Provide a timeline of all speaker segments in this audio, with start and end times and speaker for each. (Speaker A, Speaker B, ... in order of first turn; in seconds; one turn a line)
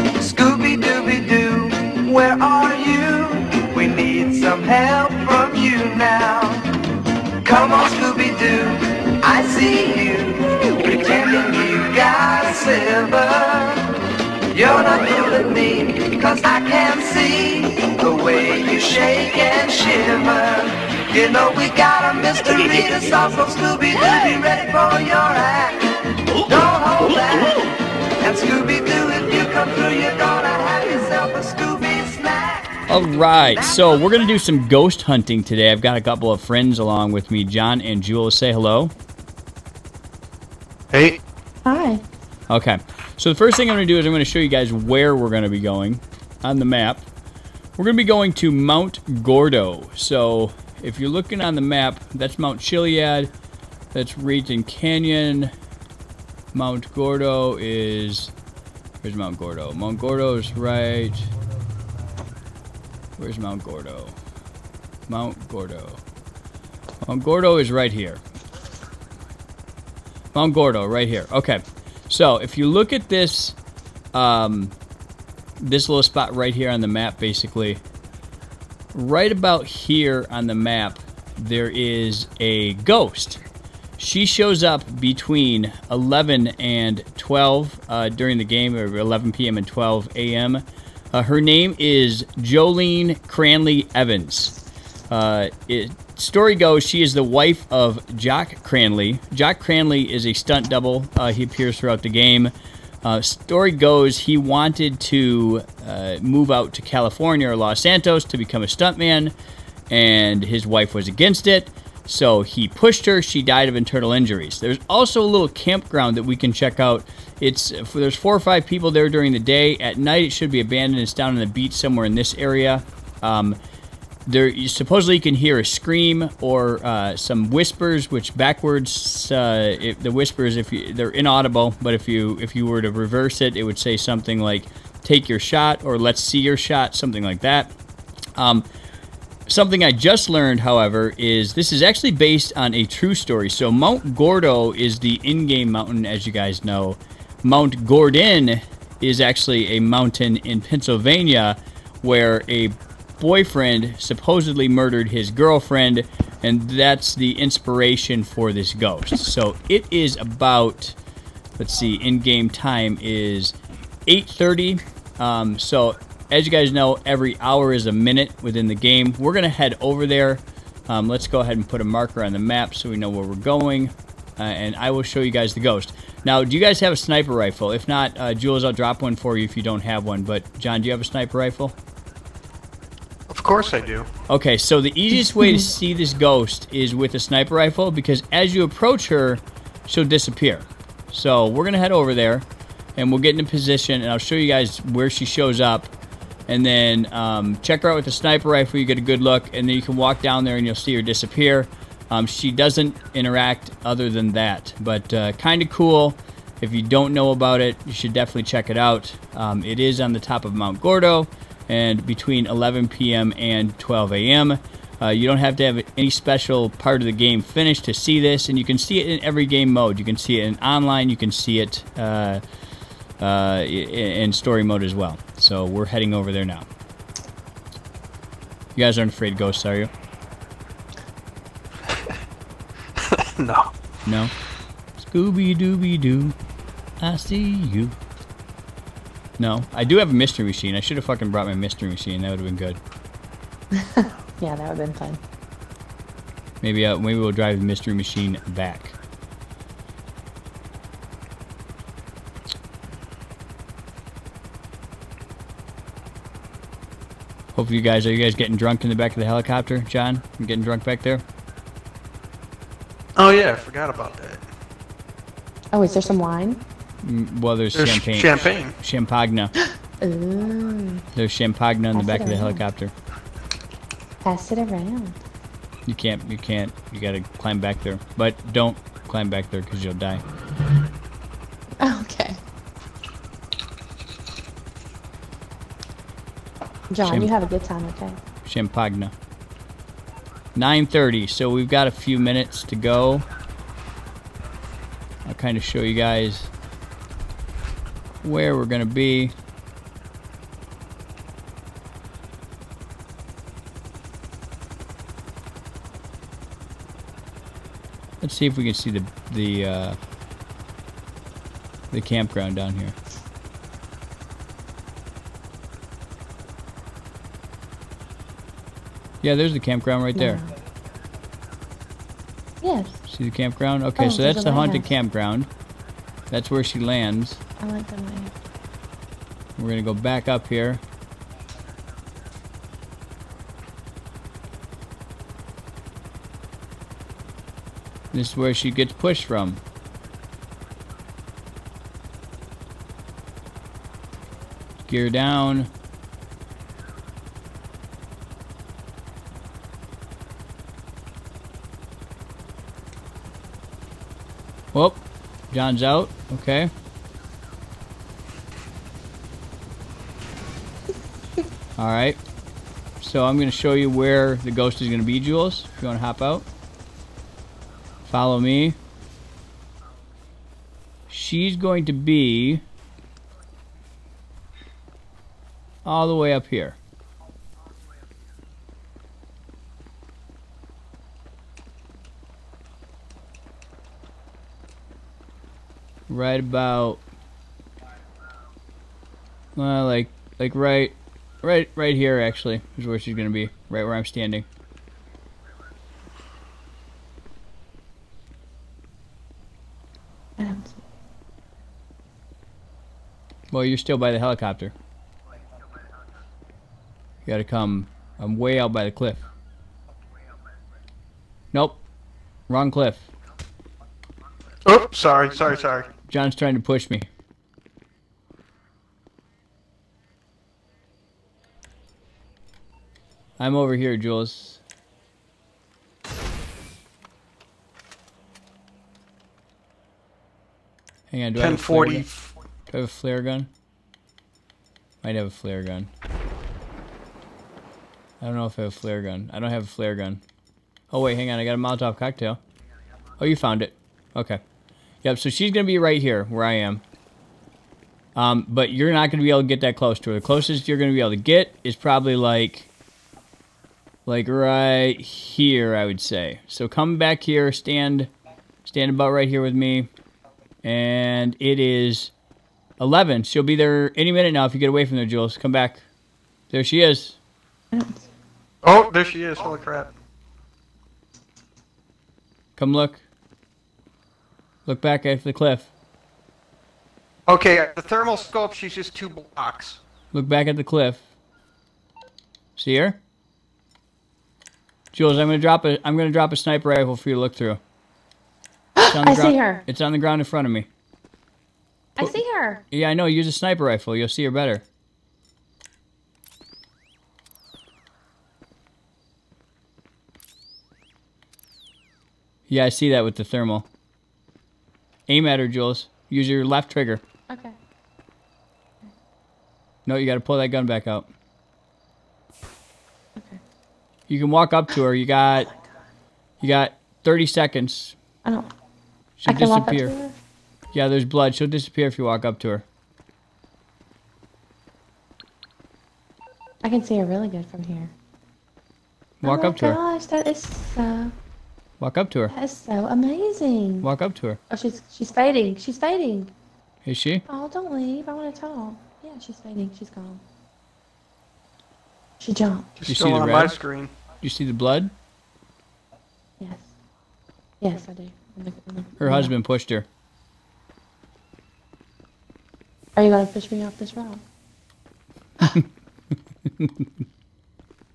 Speaker A: 0.2-6.8
Speaker A: 7.4-14.0
Speaker A: 14.5-34.2
Speaker B: 32.9-38.9
Speaker C: 40.9-41.2
Speaker D: 41.6-42.0
Speaker B: 42.5-47.0
Speaker B: 47.8-53.3
Speaker B: 53.9-55.5
Speaker B: 56.5-58.3
Speaker B: 59.0-61.3
Speaker B: 63.2-64.2
Speaker B: 65.1-66.0
Speaker B: 67.0-68.2
Speaker B: 70.3-73.6
Speaker B: 74.1-74.8
Speaker B: 75.6-77.8
Speaker B: 78.9-83.4
Speaker B: 84.0-94.6
Speaker B: 95.1-102.5
Speaker B: 103.0-109.3
Speaker B: 109.9-123.6
Speaker B: 124.3-137.7
Speaker B: 138.3-138.7
Speaker B: 139.5-161.0
Speaker B: 161.6-181.8
Speaker C: 183.3-184.1
Speaker B: 184.3-195.9
Speaker D: 185.1-185.7
Speaker B: 196.5-222.4
Speaker B: 223.2-226.7
Speaker B: 228.8-229.9
Speaker C: 233.0-233.7
Speaker B: 234.0-234.3
Speaker B: 235.0-236.3
Speaker B: 237.0-238.0
Speaker B: 239.4-242.8
Speaker D: 243.7-245.2
Speaker B: 246.6-248.9
Speaker B: 257.6-261.2
Speaker C: 263.1-264.4
Speaker D: 265.7-266.6
Speaker B: 267.0-269.5
Speaker C: 267.8-268.8
Speaker D: 269.7-271.1
Speaker B: 271.1-272.9
Speaker D: 271.9-272.6
Speaker D: 274.2-275.2
Speaker B: 275.9-280.2
Speaker D: 281.8-282.4
Speaker D: 286.9-288.2
Speaker B: 287.0-287.3
Speaker B: 288.4-289.1
Speaker B: 290.6-293.2
Speaker B: 295.2-296.5
Speaker B: 298.2-299.3
Speaker B: 308.2-310.0
Speaker B: 311.9-312.9
Speaker B: 319.2-320.4
Speaker D: 320.1-320.5
Speaker D: 322.6-323.0
Speaker B: 323.1-325.5
Speaker D: 324.0-324.9
Speaker B: 326.3-327.4
Speaker D: 327.6-328.4
Speaker B: 329.6-330.8
Speaker B: 338.1-339.6
Speaker B: 344.9-345.7
Speaker B: 354.7-356.7
Speaker B: 361.8-362.2
Speaker B: 363.0-366.5
Speaker B: 368.1-368.8
Speaker B: 371.1-372.6
Speaker B: 375.8-376.8
Speaker B: 386.1-387.0
Speaker B: 389.6-394.4
Speaker D: 400.4-400.8
Speaker B: 403.5-404.7
Speaker B: 407.2-409.2
Speaker B: 411.5-411.8
Speaker B: 412.5-413.1
Speaker C: 414.6-415.9
Speaker B: 416.1-417.1
Speaker B: 423.4-424.6
Speaker B: 431.1-432.1
Speaker C: 431.3-432.3
Speaker B: 432.7-433.5
Speaker B: 435.0-435.9
Speaker B: 438.2-440.2
Speaker B: 440.9-442.4
Speaker B: 443.2-444.4
Speaker B: 445.0-446.8
Speaker B: 448.1-452.7
Speaker B: 454.1-458.1
Speaker B: 458.6-459.9
Speaker B: 460.6-462.1
Speaker B: 462.8-465.9
Speaker B: 466.5-467.2
Speaker D: 467.7-468.1
Speaker C: 468.6-469.9
Speaker B: 472.6-473.0
Speaker B: 474.6-475.7
Speaker C: 477.3-479.8
Speaker B: 480.1-481.1
Speaker B: 482.6-483.0
Speaker B: 484.9-487.6
Speaker D: 488.8-489.6
Speaker B: 488.9-490.7
Speaker D: 492.0-492.6
Speaker B: 492.7-494.6
Speaker B: 502.5-503.7
Speaker B: 505.1-507.0
Speaker D: 507.3-507.6
Speaker B: 509.9-511.1
Speaker B: 514.1-515.5
Speaker B: 516.4-518.0
Speaker D: 518.2-518.5
Speaker B: 519.2-519.9
Speaker D: 519.3-520.2
Speaker B: 520.7-522.6
Speaker D: 526.6-527.9
Speaker B: 529.2-529.8
Speaker D: 529.2-531.1
Speaker B: 531.8-532.3
Speaker D: 532.3-533.9
Speaker B: 533.8-534.4
Speaker D: 534.5-536.3
Speaker B: 536.9-537.2
Speaker D: 537.3-540.2
Speaker D: 542.2-542.7
Speaker C: 542.8-543.9
Speaker B: 542.9-543.6
Speaker B: 544.2-544.9
Speaker D: 546.4-546.7
Speaker D: 547.6-549.3
Speaker B: 549.0-549.9
Speaker D: 553.0-554.2
Speaker B: 556.5-556.8